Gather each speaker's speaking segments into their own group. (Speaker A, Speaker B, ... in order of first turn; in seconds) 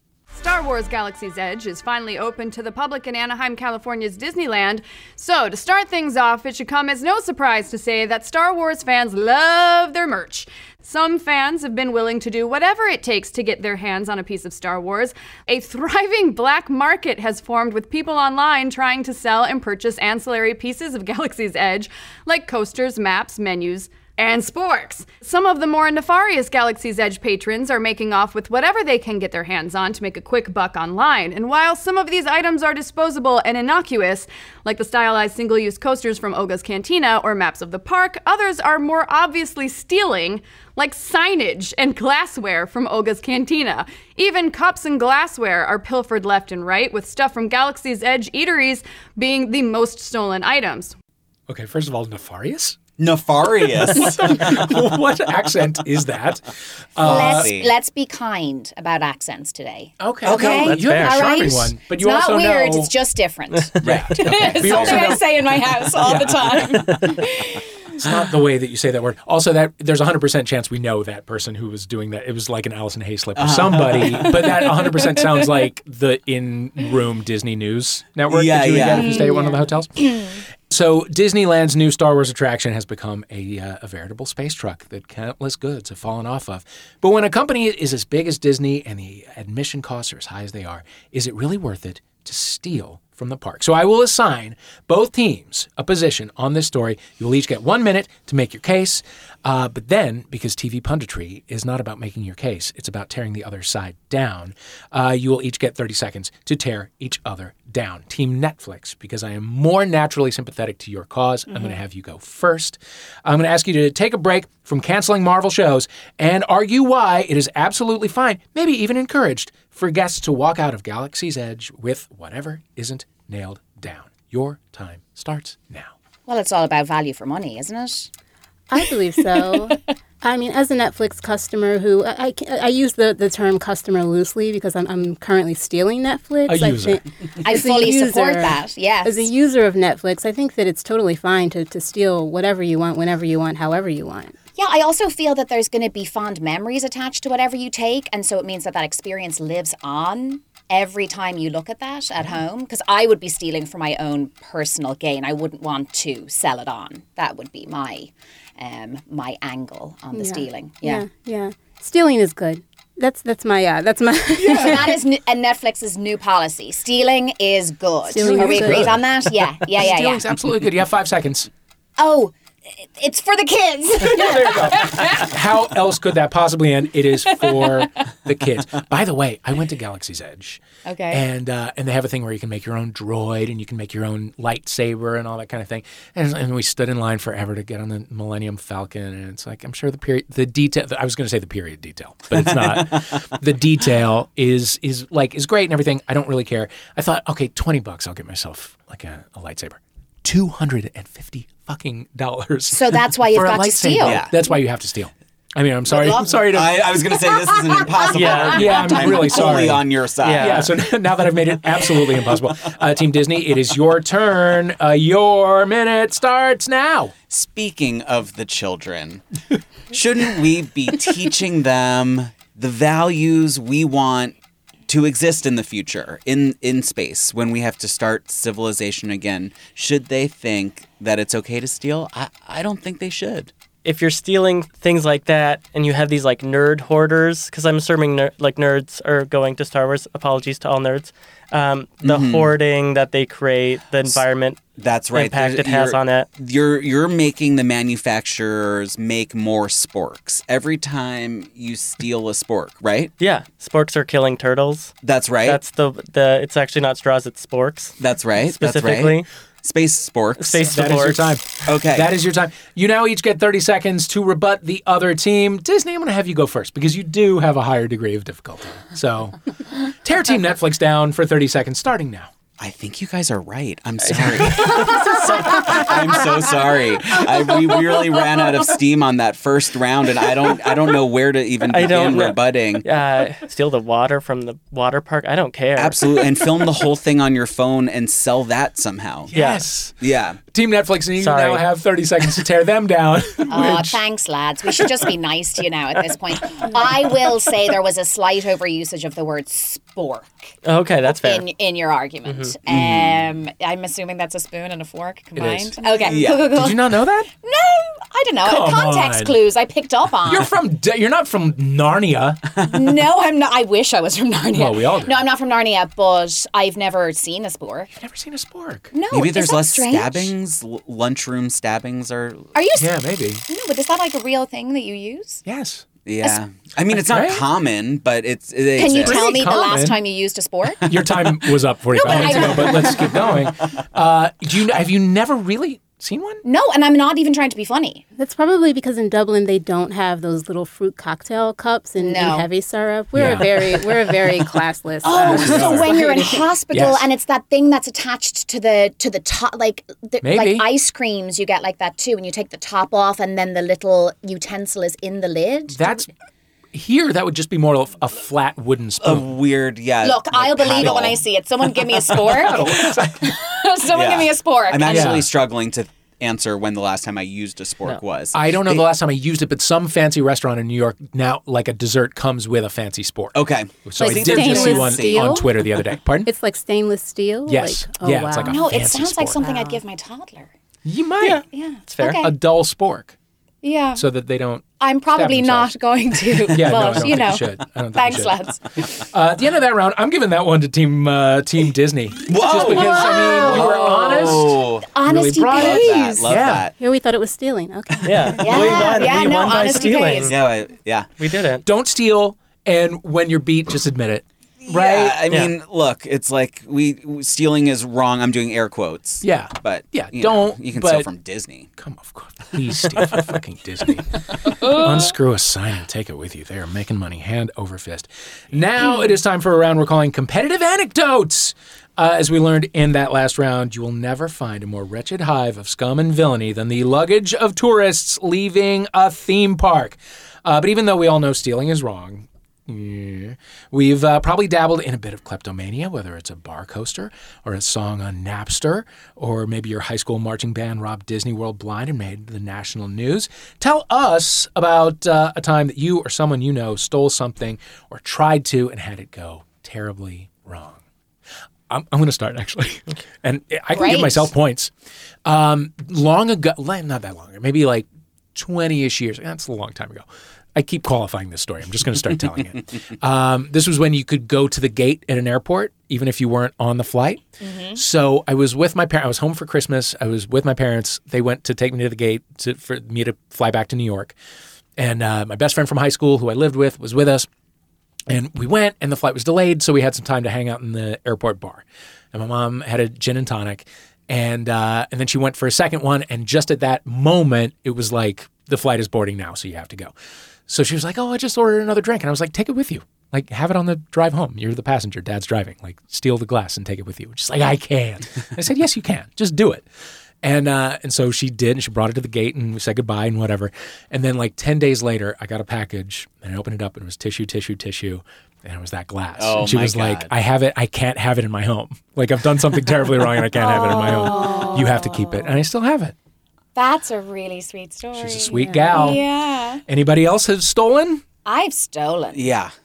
Speaker A: 0.3-50.9
Speaker B: 51.5-52.8, 53.9-57.5, 60.0-62.9, 63.8-65.3, 66.0-67.1, 68.0-125.9, 136.5-137.0, 168.2-171.5, 174.0-206.8, 208.5-217.1, 260.5-272.3, 274.2-274.8, 289.3-289.9, 290.5-294.0, 305.4-305.7, 306.4-307.3, 308.4-309.4, 310.2-312.4, 314.5-315.2, 317.9-318.9, 322.8-323.4, 325.4-325.8, 326.9-327.4, 328.8-330.0, 330.8-336.4, 343.1-343.6, 345.2-346.0, 346.7-347.1, 350.2-350.7, 355.7-356.1, 356.7-359.3, 360.7-361.2, 362.1-363.4, 364.8-365.3, 368.3-376.3, 377.5-379.5, 380.8-381.4, 382.0-383.1, 383.9-385.7, 386.4-388.4, 389.0-396.7, 398.4-400.2, 401.6-405.2, 409.2-411.1, 411.8-450.8, 451.7-454.7, 455.2-467.2, 467.7-474.1, 474.8-477.3, 478.1-489.9, 490.5-499.6, 500.2-515.9, 518.0-519.0, 519.6-521.0
Speaker C: 53.0-54.7, 57.0-57.7, 60.2-60.8, 63.8-65.2, 73.3-74.6, 78.3-79.2, 192.3-193.2, 204.0-204.3, 206.5-210.7, 217.3-219.2, 219.9-224.4, 224.9-233.5, 242.0-242.5, 244.8-253.1, 255.0-255.6, 258.0-260.6, 261.6-262.1, 272.6-282.9, 285.8-289.3, 290.0-290.4, 302.7-303.3, 306.0-306.6, 319.1-322.5, 326.0-329.2, 359.0-361.2, 362.2-362.8, 363.9-368.9, 373.3-375.4, 392.3-394.9, 395.5-396.7, 400.2-401.1, 404.6-411.7, 509.2-510.1, 522.1-522.5
Speaker D: 57.0-67.6, 78.9-80.3, 126.3-128.1, 129.3-129.7, 137.4-139.3, 144.6-161.1, 164.5-170.3, 172.0-175.3, 180.8-181.2, 202.7-204.3, 205.9-209.4, 293.5-300.5, 301.0-310.5, 312.6-317.9, 318.9-320.3, 322.5-325.4, 328.8-331.1, 331.9-333.3, 336.4-338.0, 342.0-342.5, 345.0-356.0, 360.0-365.2, 374.3-375.4, 378.4-380.5, 381.5-382.3, 383.6-384.0, 384.8-388.8, 392.6-396.4, 398.4-400.3, 453.7-454.3, 467.4-467.8, 513.4-515.3, 516.5-519.6, 521.2-522.4
Speaker E: 128.7-144.3, 160.1-165.0, 168.1-168.9, 338.2-346.3, 374.0-375.4, 376.2-378.8, 379.4-379.8, 396.8-398.9
Speaker F: 208.1-208.8, 210.2-210.7, 233.8-244.6, 245.1-246.3, 253.2-254.9, 255.4-259.3, 260.4-261.4, 274.1-274.4, 281.7-286.2, 289.3-289.6, 291.2-291.6, 300.6-301.4, 302.2-302.5, 381.2-382.2, 398.0-400.4, 401.2-401.6